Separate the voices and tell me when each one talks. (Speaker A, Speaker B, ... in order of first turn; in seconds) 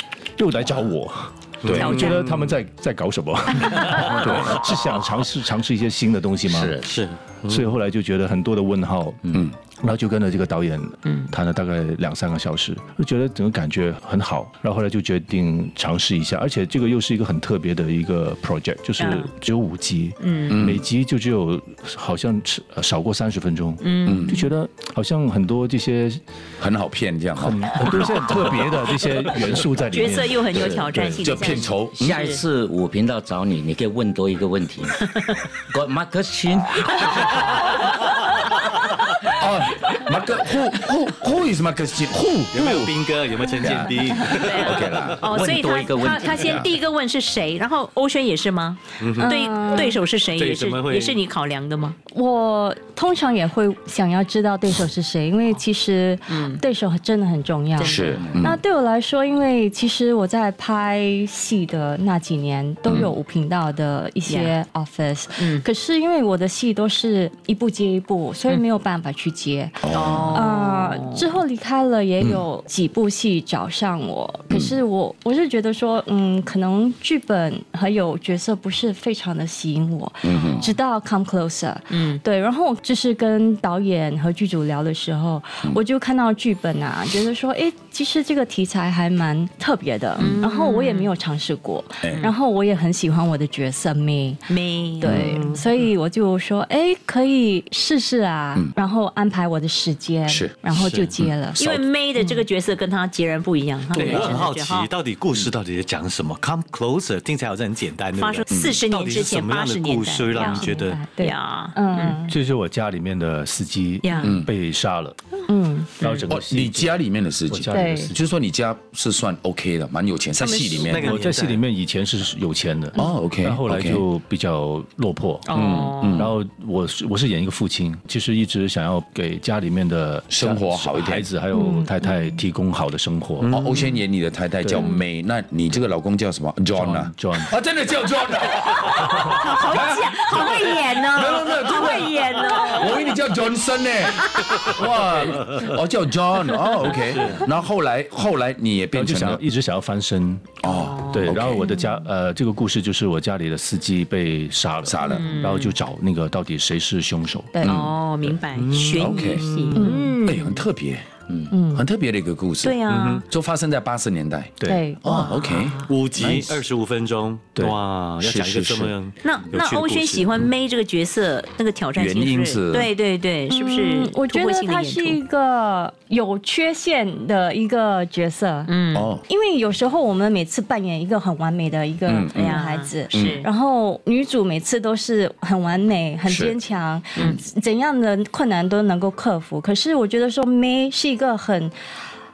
Speaker A: 0.4-6.8, 7.5-26.2, 27.3-31.2, 112.3-115.2, 116.0-118.2, 121.0-133.5, 134.6-134.9, 136.7-137.6, 148.9-150.5, 151.1-157.5, 164.6-164.8
Speaker B: 1.7-2.0, 4.2-4.5, 20.5-20.8, 24.1-24.5, 26.6-28.3, 30.5-32.2, 39.2-42.9, 43.5-45.3, 46.3-46.7, 57.8-58.6, 62.9-63.1, 69.8-70.5, 74.5-74.8, 80.2-80.7, 92.0-92.3, 100.3-100.5, 104.0-104.5, 108.5-108.8, 114.2-114.5, 116.3-121.2, 122.9-124.0, 125.5-126.3, 130.3-131.3, 133.5-149.4, 150.6-151.7, 154.8-155.4, 157.6-158.4, 158.9-159.5, 160.2-161.1, 161.7-166.6, 168.2-168.9, 172.0-172.9, 178.9-179.2, 182.1-182.6, 183.1-183.4, 186.3-186.6, 187.2-187.4
Speaker C: 1.7-2.2, 11.1-11.3, 19.0-19.3, 20.2-20.6, 23.8-24.3, 29.9-32.4, 44.1-52.0, 56.3-56.6, 57.8-58.3, 64.2-64.5, 65.4-65.7, 69.9-71.3, 81.9-82.2, 90.2-91.1, 94.5-95.5, 101.6-104.9, 108.2-112.1, 114.0-114.4, 116.0-116.3, 120.4-121.2, 125.5-126.3, 139.2-143.2, 144.1-144.7, 146.8-147.3, 150.7-151.7, 155.1-155.8, 157.6-160.7, 162.6-163.2, 165.1-165.9, 169.2-175.2, 178.7-179.1, 182.3-183.5
Speaker D: 6.8-7.7, 42.5-45.2, 49.0-49.3, 50.4-51.2, 95.1-95.6, 100.8-101.2, 103.9-111.0, 120.8-121.6, 133.4-134.0, 147.0-147.5, 158.5-160.0, 162.9-163.2, 165.8-170.5
Speaker E: 31.9-35.0, 35.7-37.3, 45.3-46.7
Speaker F: 49.2-50.0, 52.1-94.5, 95.0-101.6, 102.2-102.4, 110.3-112.4, 115.5-115.9, 117.7-118.1, 131.6-131.9, 159.7-160.1, 161.5-161.8, 164.6-165.1, 173.5-178.7, 179.3-191.7